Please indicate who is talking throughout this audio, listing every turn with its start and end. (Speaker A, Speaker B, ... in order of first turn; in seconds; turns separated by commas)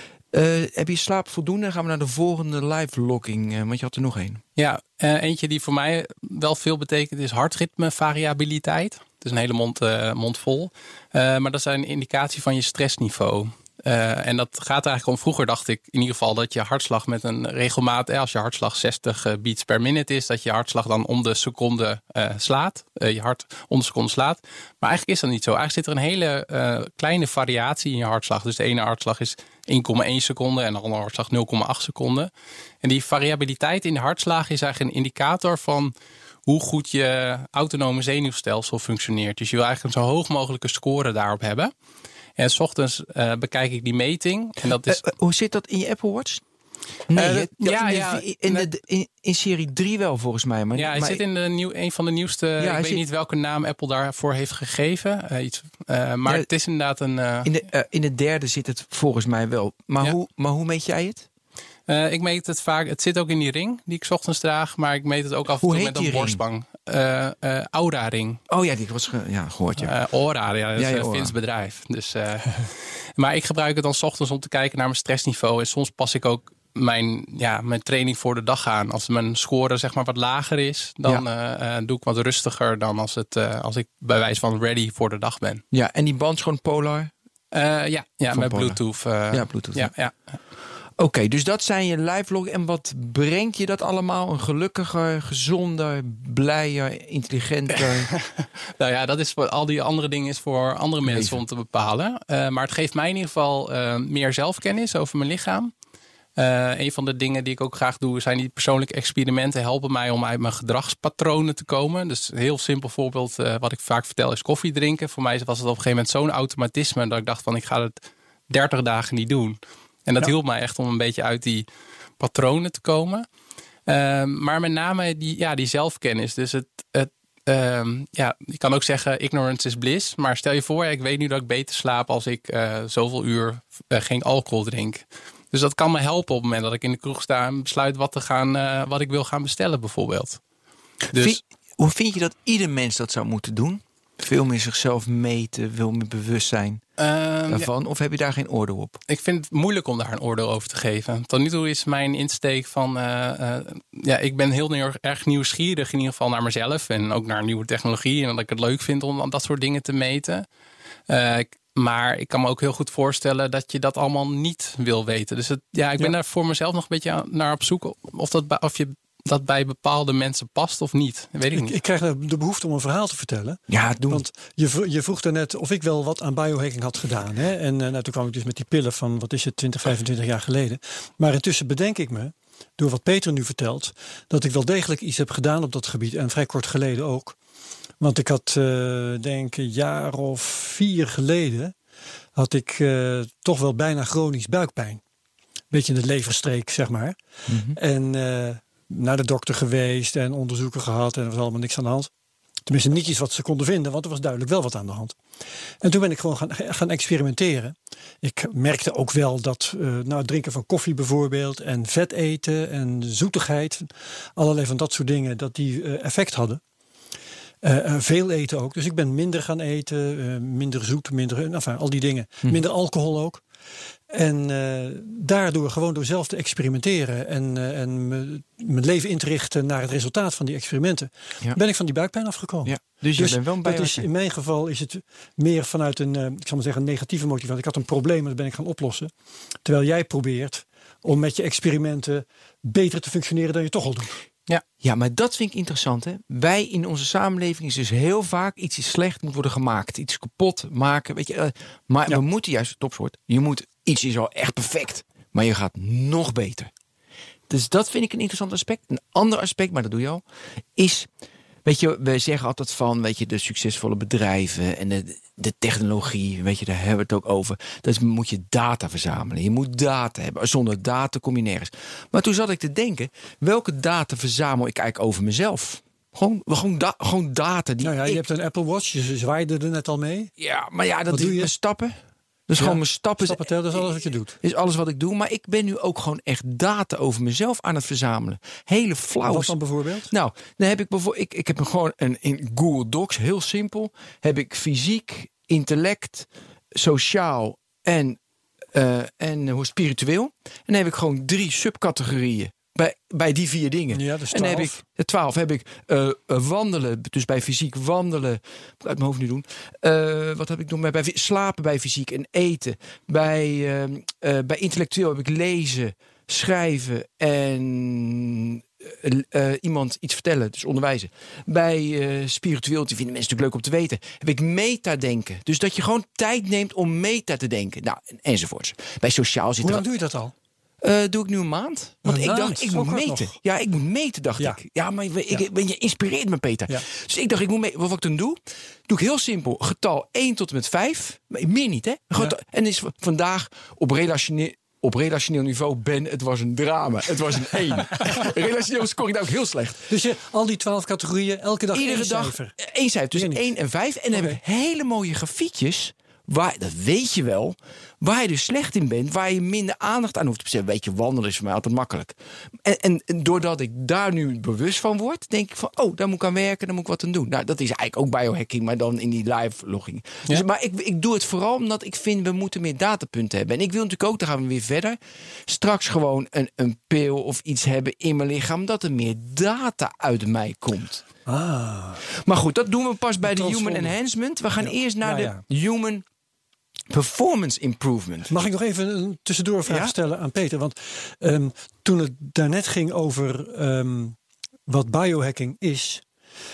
Speaker A: 0.3-4.4, Speaker B: 4.6-32.3, Speaker B: 32.8-35.9, Speaker B: 36.5-41.7, Speaker B: 42.4-45.0, Speaker A: 44.7-46.4, Speaker A: 47.1-51.2, Speaker B: 47.1-48.7, Speaker B: 50.8-57.5, Speaker A: 52.6-53.0, Speaker A: 57.5-61.3, Speaker B: 61.9-68.4, Speaker A: 65.6-66.4, Speaker A: 68.5-69.9, Speaker B: 69.8-85.6, Speaker A: 70.8-71.3, Speaker A: 85.7-87.1, Speaker B: 87.5-90.2, Speaker A: 88.3-88.8, Speaker A: 89.3-89.9, Speaker A: 91.0-98.1, Speaker B: 98.1-105.7, Speaker A: 101.0-101.4, Speaker B: 106.4-118.0, Speaker B: 118.5-121.7, Speaker B: 122.2-123.2, Speaker B: 123.9-140.4, Speaker B: 141.1-141.4, Speaker A: 141.1-146.8, Speaker B: 147.0-147.7, Speaker A: 147.5-149.0, Speaker B: 149.1-160.5, Speaker B: 161.1-171.8, Speaker C: 171.5-187.4, Speaker A: 173.7-174.2, Speaker C: 188.0-191.8, Speaker C: 192.4-195.0, Speaker C: 195.7-197.2, Speaker A: 197.5-197.8, Speaker C: 197.7-202.1, Speaker C: 202.7-205.2, Speaker C: 205.8-216.6, Speaker C: 217.6-223.4, Speaker C: 224.1-239.1, Speaker A: 232.7-234.1, Speaker C: 239.7-244.1, Speaker A: 244.8-256.7, Speaker A: 257.5-260.2, Speaker A: 260.8-261.1, Speaker A: 261.6-278.2, Speaker C: 277.8-280.3, Speaker A: 280.4-282.0, Speaker C: 281.1-281.5, Speaker A: 282.5-289.6, Speaker C: 282.6-284.4, Speaker C: 289.2-290.1, Speaker A: 290.1-298.2, Speaker A: 298.7-329.9, Speaker C: 303.9-304.8, Speaker C: 329.6-330.3, Speaker A: 330.8-349.9, Speaker C: 332.1-333.4, Speaker C: 349.9-352.6, Speaker A: 351.7-381.1, Speaker C: 353.1-353.4, Speaker C: 381.3-382.0, Speaker A: 382.1-386.1, Speaker C: 383.3-383.9, Speaker C: 384.6-385.4, Speaker A: 386.9-388.4, Speaker C: 388.3-394.2, Speaker A: 389.7-389.9, Speaker C: 394.7-396.0